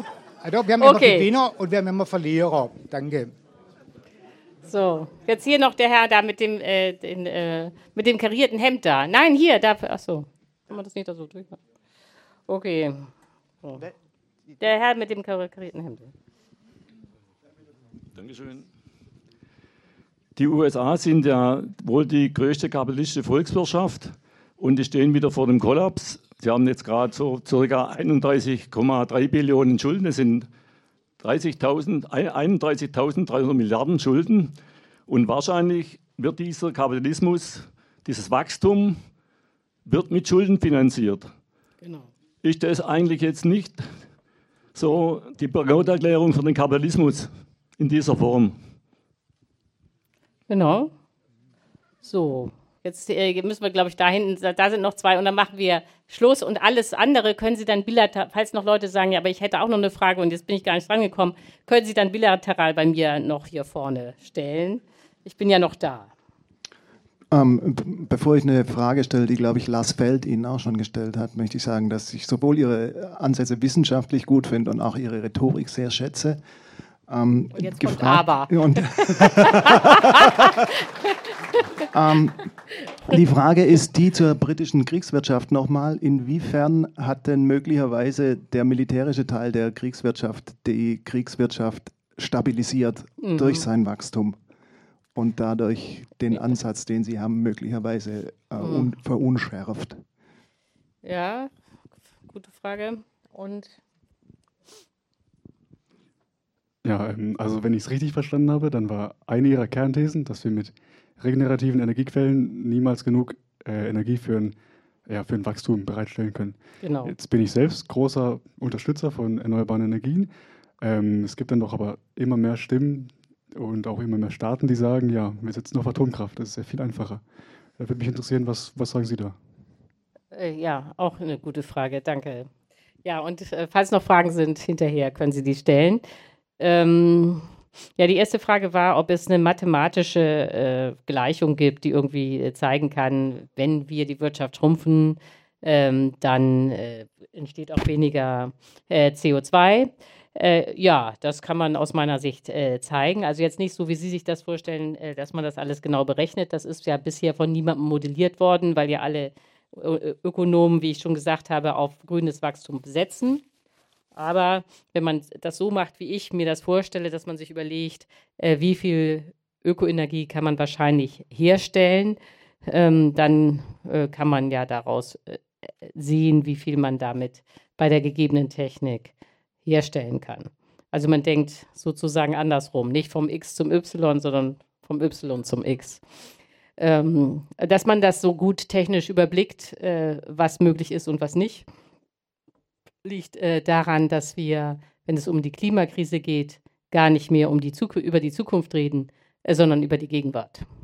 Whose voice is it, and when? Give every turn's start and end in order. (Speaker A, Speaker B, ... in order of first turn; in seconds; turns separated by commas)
Speaker A: 0.4-3.3, Speaker B: 0.8-1.3, Speaker B: 4.7-11.6, Speaker B: 12.5-13.1, Speaker B: 13.6-13.9, Speaker B: 14.6-16.1, Speaker C: 18.2-18.6, Speaker C: 20.4-30.5, Speaker C: 31.2-39.0, Speaker C: 39.9-41.3, Speaker B: 41.8-42.1, Speaker C: 42.4-43.9, Speaker C: 44.8-48.6, Speaker B: 50.5-50.9, Speaker B: 52.0-66.1, Speaker D: 67.3-76.4, Speaker D: 77.1-80.7, Speaker B: 77.5-79.8, Speaker D: 81.9-82.5, Speaker D: 83.1-94.4, Speaker B: 93.2-93.7, Speaker D: 95.2-100.0, Speaker B: 98.6-99.0, Speaker B: 101.0-101.5, Speaker B: 102.3-103.0, Speaker E: 106.8-127.2, Speaker B: 116.8-117.1, Speaker E: 127.8-129.4, Speaker B: 130.3-132.5, Speaker B: 133.0-136.0, Speaker B: 136.6-137.5, Speaker B: 138.0-163.4, Speaker B: 164.2-179.1, Speaker B: 179.7-186.0, Speaker B: 186.8-191.7, Speaker B: 193.0-200.7